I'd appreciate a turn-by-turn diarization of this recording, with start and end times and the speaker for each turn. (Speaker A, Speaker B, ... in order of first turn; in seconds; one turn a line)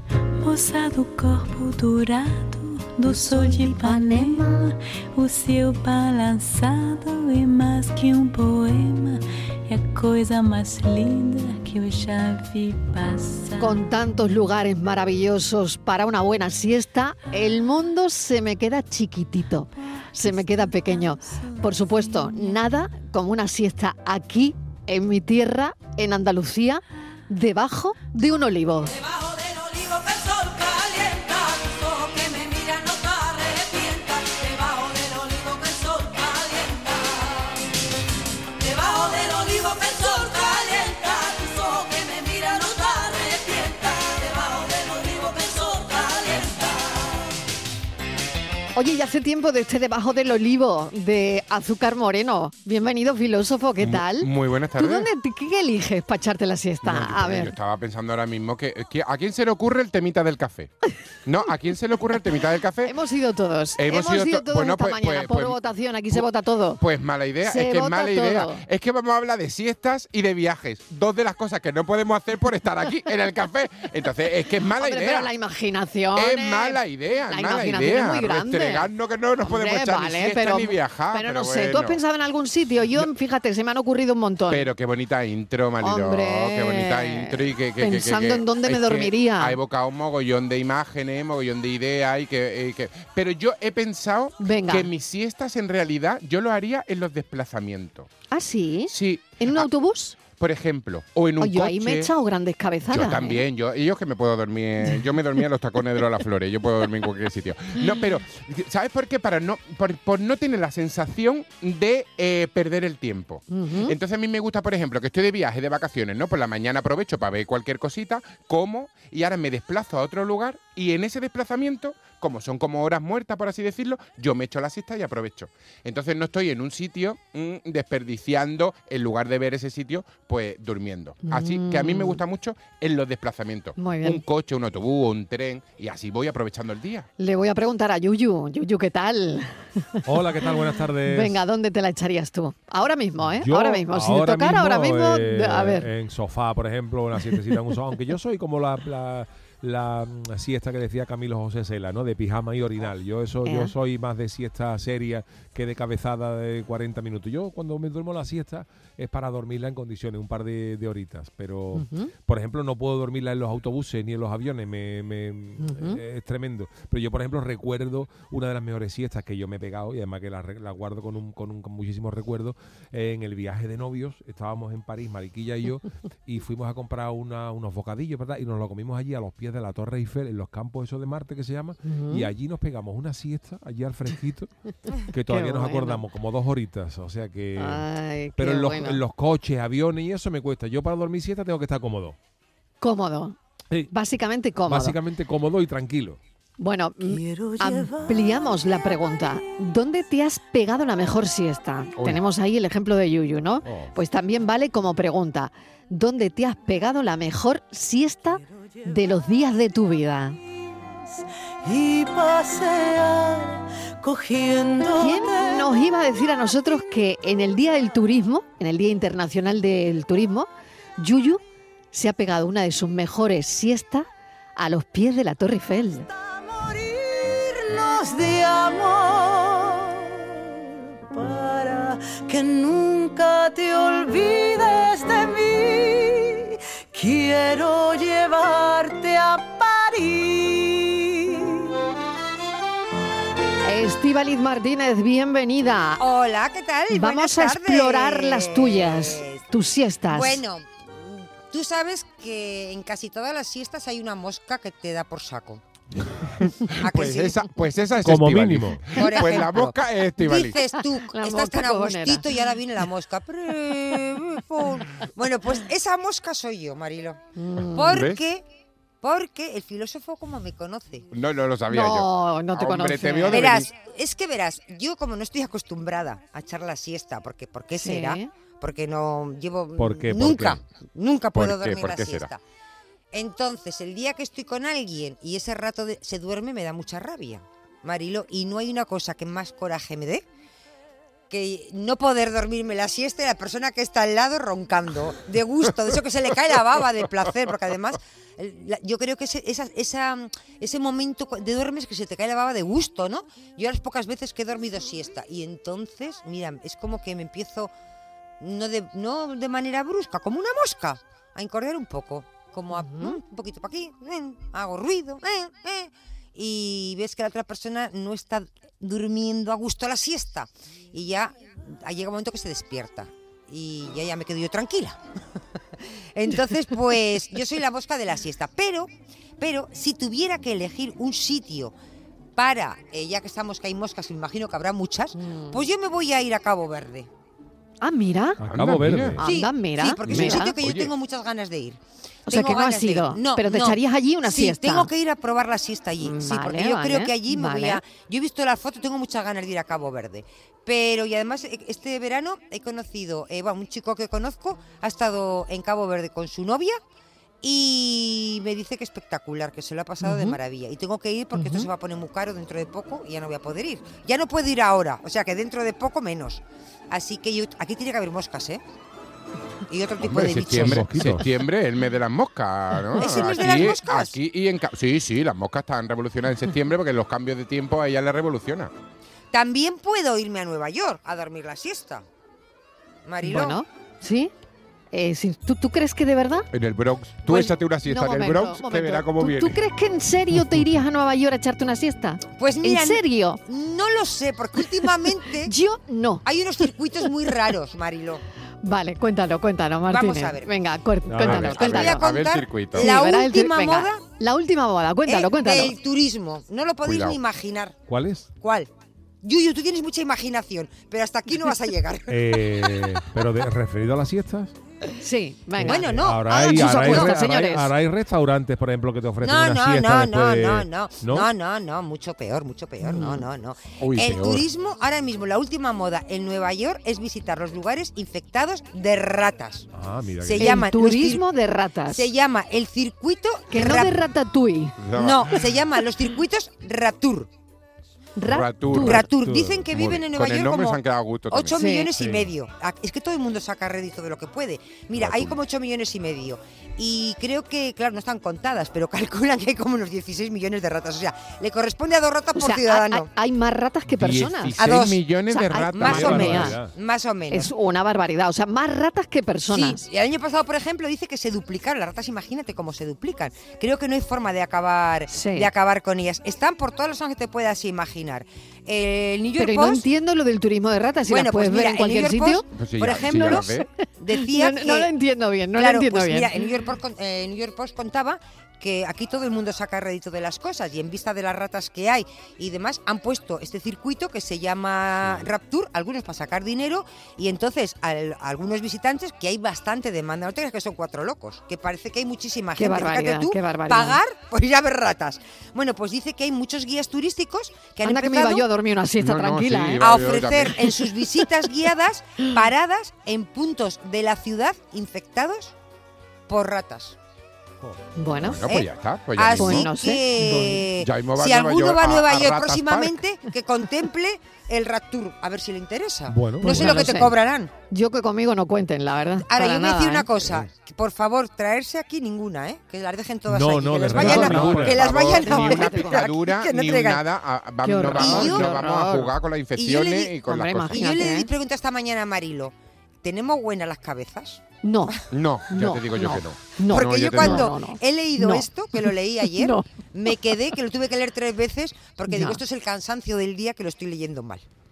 Speaker A: 0.4-13.8
Speaker B: 3.0-4.7
Speaker B: 13.6-28.9
Speaker A: 20.2-22.6
Speaker C: 29.1-37.5
Speaker C: 38.6-47.0
Speaker B: 48.8-57.5
Speaker D: 53.8-55.1
Speaker D: 56.8-60.7
Speaker D: 61.2-62.9
Speaker B: 62.8-66.8
Speaker D: 63.8-65.6
Speaker D: 66.8-75.3
Speaker B: 67.4-68.6
Speaker B: 74.8-78.9
Speaker D: 76.1-82.0
Speaker B: 79.4-84.7
Speaker D: 84.5-98.1
Speaker B: 85.8-89.6
Speaker B: 94.4-94.9
Speaker B: 98.3-100.2
Speaker D: 98.9-102.1
Speaker B: 101.4-103.4
Speaker D: 102.9-137.1
Speaker B: 113.5-113.9
Speaker B: 131.2-132.2
Speaker B: 133.8-134.2
Speaker B: 137.2-145.9
Speaker E: 140.1-141.4
Speaker E: 143.2-184.5
Speaker B: 153.4-153.7
Speaker B: 161.7-162.1
Speaker B: 165.6-166.0
Speaker B: 181.8-182.3
Speaker E: 185.1-187.8
Speaker B: 185.3-186.0
Speaker B: 187.6-189.0
Speaker E: 188.4-192.2
Speaker B: 192.8-193.3
Speaker B: 193.9-195.0
Speaker E: 194.7-196.2
Speaker B: 196.6-210.4
Speaker C: 197.0-199.1
Speaker E: 203.6-203.9
Speaker C: 211.6-215.8
Speaker B: 215.0-221.4
Speaker B: 221.9-226.1
Speaker C: 226.1-230.1
Speaker C: 231.1-241.7
Speaker B: 243.6-246.0
Speaker F: 246.0-249.5
Speaker B: 246.9-250.4
Speaker F: 250.1-255.6
Speaker D: 256.7-260.6
Speaker F: 256.8-257.5
Speaker E: 258.0-258.8
Speaker F: 258.9-267.2
Speaker B: 261.1-262.2
Speaker B: 267.4-268.0
Speaker F: 267.7-268.4
Speaker D: 267.9-268.2
Speaker F: 269.0-271.1
Speaker D: 271.1-273.7
Speaker B: 271.7-273.6
Speaker F: 273.3-282.4
Speaker B: 277.8-278.3
Speaker E: 279.8-280.6
Speaker D: 281.3-282.3
Speaker F: 283.1-290.2
Speaker F: 291.3-307.7
Speaker F: 308.4-325.0
Speaker B: 312.7-313.2
Speaker F: 326.1-331.7
Speaker F: 332.4-337.1
Speaker B: 335.1-335.6
Speaker B: 337.8-338.4
Speaker E: 338.4-339.2
Speaker D: 338.5-339.2
Speaker B: 339.2-340.5
Speaker F: 339.2-356.8
Speaker D: 340.1-340.9
Speaker B: 342.3-344.9
Speaker B: 346.0-347.8
Speaker F: 357.4-368.6
Speaker B: 360.0-360.4
Speaker B: 361.3-361.7
Speaker F: 369.7-371.1
Speaker D: 370.0-378.7
Speaker E: 370.3-371.3
Speaker F: 372.9-374.1
Speaker F: 379.3-382.0
Speaker F: 383.1-383.6
Speaker B: 383.2-384.3
Speaker B: 384.9-386.5
Speaker D: 386.5-389.6
Speaker B: 387.3-393.4
Speaker F: 392.4-395.5
Speaker B: 395.4-396.2
Speaker F: 396.2-398.2
Speaker B: 398.6-402.0
Speaker F: 399.9-400.5
Speaker E: 401.1-401.5
Speaker D: 401.2-402.9
Speaker F: 401.3-404.0
Speaker B: 402.7-405.7
Speaker F: 405.1-407.8
Speaker D: 406.8-407.2
Speaker E: 407.9-408.3
Speaker F: 408.4-408.7
Speaker F: 409.2-412.8
Speaker E: 412.1-414.5
Speaker B: 415.0-417.7
Speaker E: 415.6-421.3
Speaker F: 415.6-417.1
Speaker F: 419.2-429.7
Speaker B: 422.8-423.2
Speaker D: 423.8-424.4
Speaker E: 429.7-430.6
Speaker F: 430.2-431.2
Speaker B: 430.4-432.1
Speaker F: 431.9-433.9
Speaker B: 433.5-434.8
Speaker D: 434.8-435.4
Speaker F: 434.9-437.3
Speaker B: 438.2-439.0
Speaker D: 438.2-439.0
Speaker E: 438.7-439.6
Speaker F: 438.7-453.1
Speaker D: 439.7-441.6
Speaker B: 441.5-441.9
Speaker E: 441.9-442.3
Speaker D: 444.9-445.4
Speaker B: 452.4-454.6
Speaker D: 453.9-456.5
Speaker F: 454.6-455.0
Speaker B: 455.3-456.5
Speaker F: 455.7-457.5
Speaker E: 455.8-456.7
Speaker B: 457.3-459.8
Speaker F: 459.5-469.8
Speaker B: 465.1-465.5
Speaker B: 469.4-472.4
Speaker F: 471.1-474.9
Speaker D: 472.5-473.7
Speaker B: 473.1-473.6
Speaker B: 474.1-476.4
Speaker F: 475.6-498.4
Speaker B: 492.6-494.0
Speaker B: 497.8-499.9
Speaker D: 499.0-500.6
Speaker F: 499.8-505.5
Speaker F: 506.3-506.9
Speaker B: 508.0-508.6
Speaker D: 508.2-509.7
Speaker F: 508.4-517.5
Speaker B: 509.4-510.6
Speaker D: 510.8-513.0
Speaker E: 516.1-517.0
Speaker B: 516.4-517.1
Speaker B: 517.7-520.1
Speaker F: 519.2-527.0
Speaker E: 523.3-524.8
Speaker D: 523.9-530.8
Speaker B: 524.0-526.0
Speaker B: 527.6-529.1
Speaker F: 527.9-528.6
Speaker F: 529.5-530.2
Speaker B: 530.2-531.3
Speaker F: 530.7-534.4
Speaker B: 534.6-535.0
Speaker D: 535.1-537.5
Speaker B: 535.5-539.6
Speaker F: 536.7-544.4
Speaker B: 542.1-542.4